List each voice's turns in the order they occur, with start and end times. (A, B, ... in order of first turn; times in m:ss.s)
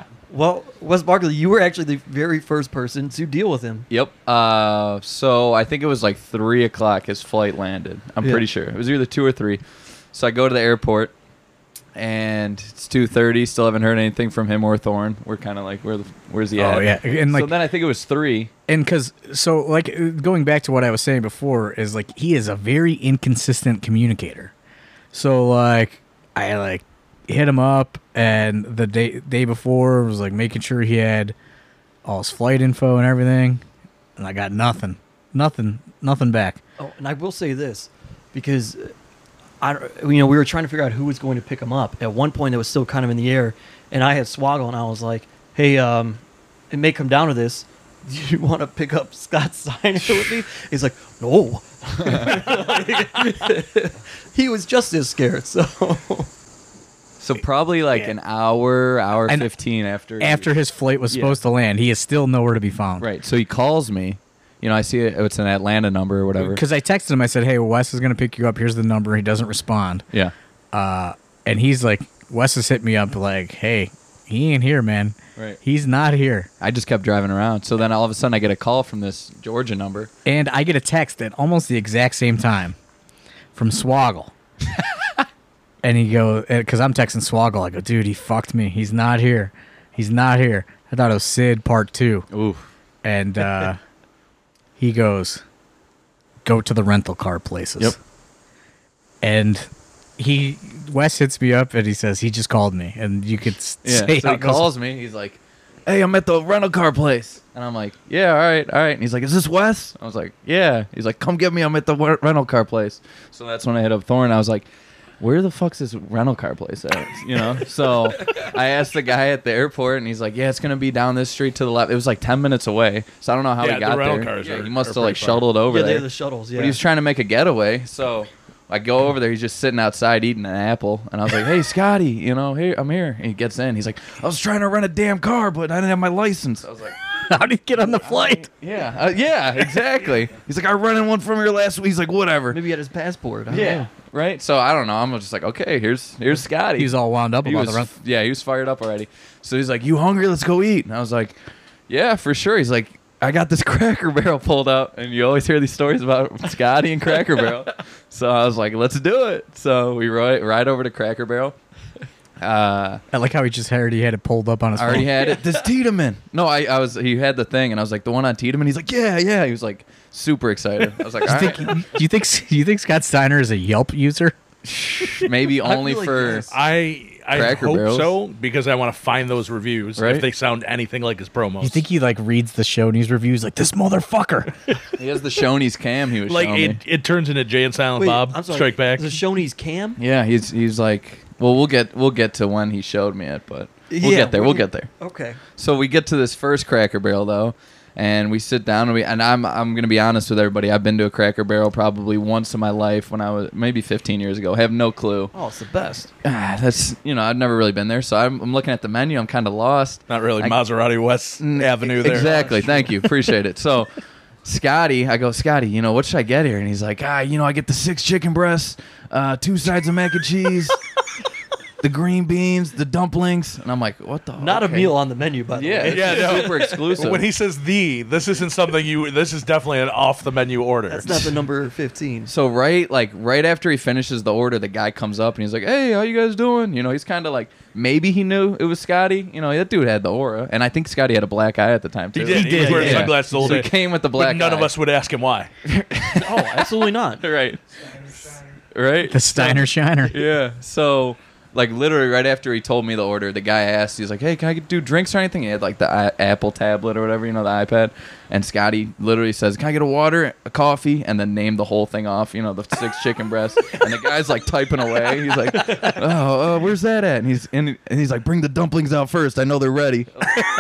0:00.3-0:03.9 A
0:03.9-0:09.6 B
0:10.1-0:11.1 B
0:12.0-0:18.5 B
0:16.6-0:17.5 C
0:18.7-0:24.5 C
0:25.1-0:31.4 C
0:32.0-0:33.6 C
0:34.2-0:36.6 C
0:36.8-0:38.9 A
0:39.6-0:56.3 A
0:57.2-1:00.5 B
1:00.2-1:03.1 C
1:01.1-1:01.4 B
1:03.0-1:06.6 B
1:06.4-1:10.0 C
1:10.7-1:16.5 C
1:16.6-1:20.1 B
1:20.3-1:22.8 C
1:23.5-1:24.3 C
1:25.8-1:32.3 C
1:32.3-1:32.6 B
1:33.0-1:33.8 C
1:34.8-1:35.4 C
1:36.4-1:38.0 C
1:39.2-1:44.7 C
1:43.8-1:54.7 B
1:55.2-2:17.0 B
2:03.6-2:05.4 D
2:05.7-2:06.8 A
2:17.2-2:18.5 C
2:17.8-2:22.6 B
2:22.5-2:23.9 A
2:23.5-2:26.9 B
2:26.8-2:27.9 C
2:27.4-2:31.4 B
2:31.9-2:41.6 B
2:42.4-2:43.0 B
2:43.1-2:45.1 C
2:44.8-2:51.7 B
2:51.2-2:54.4 C
2:54.6-2:56.5 B
2:55.6-2:56.6 A
2:56.5-3:01.8 D
2:57.3-2:58.1 B
3:00.0-3:00.3 B
3:01.6-3:04.5 C
3:05.0-3:06.8 B
3:06.3-3:09.2 D
3:08.0-3:10.0 A
3:10.0-3:14.9 B
3:13.9-3:15.4 A
3:15.6-3:25.3 B
3:25.3-3:26.1 A
3:26.2-3:30.6 B
3:30.1-3:32.8 D
3:31.4-3:40.8 B
3:32.0-3:32.9 A
3:41.8-3:45.0 B
3:44.4-3:46.6 A
3:45.5-3:47.2 B
3:45.9-3:51.4 D
3:50.9-3:52.3 A
3:52.3-4:04.7 B
4:02.2-4:05.5 D
4:02.3-4:03.3 C
4:02.3-4:03.6 A
4:05.6-4:07.6 B
4:06.2-4:07.2 A
4:08.7-4:30.4 B
4:09.1-4:10.2 C